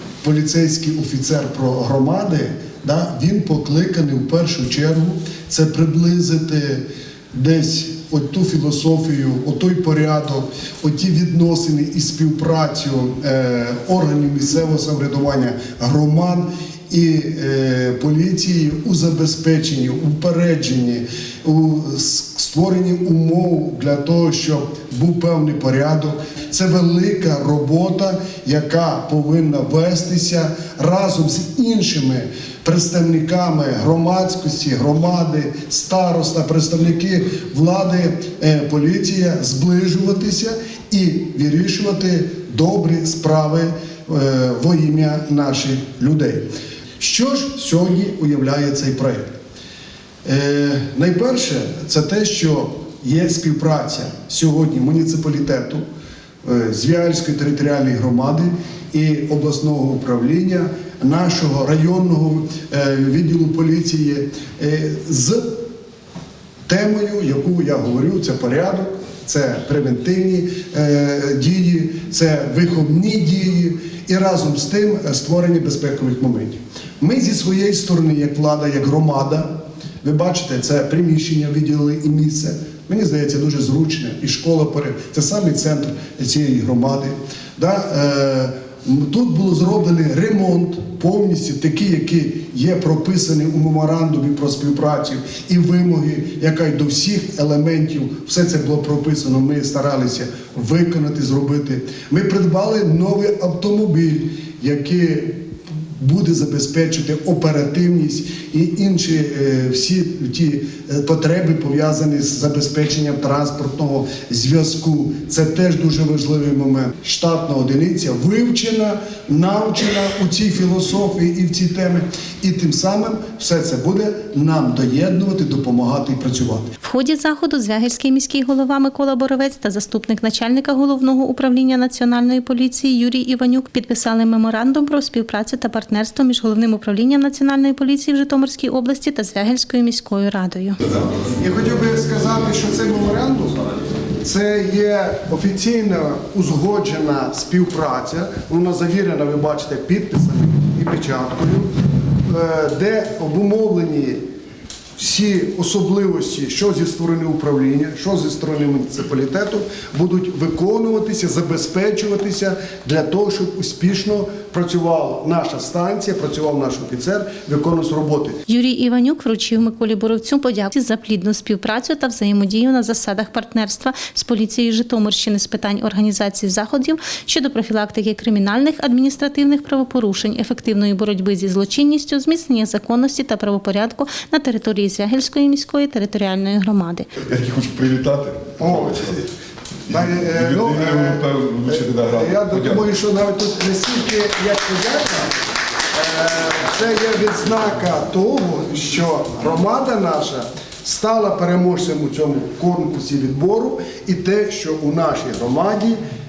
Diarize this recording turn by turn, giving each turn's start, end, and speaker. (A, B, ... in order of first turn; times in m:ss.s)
0:00.2-0:46.5 A
0:47.0-0:49.4 A
0:50.2-0:55.8 A
0:56.4-1:05.6 A
1:06.6-2:06.7 A
2:06.8-2:20.8 B
2:21.1-2:23.6 A
2:24.2-2:31.7 A
2:32.2-2:34.2 A
2:35.0-2:48.4 A
2:48.5-3:07.1 B
3:07.2-3:09.2 C
3:08.6-3:09.0 A
3:09.9-3:15.4 A
3:10.0-3:12.8 C
3:15.9-3:26.0 A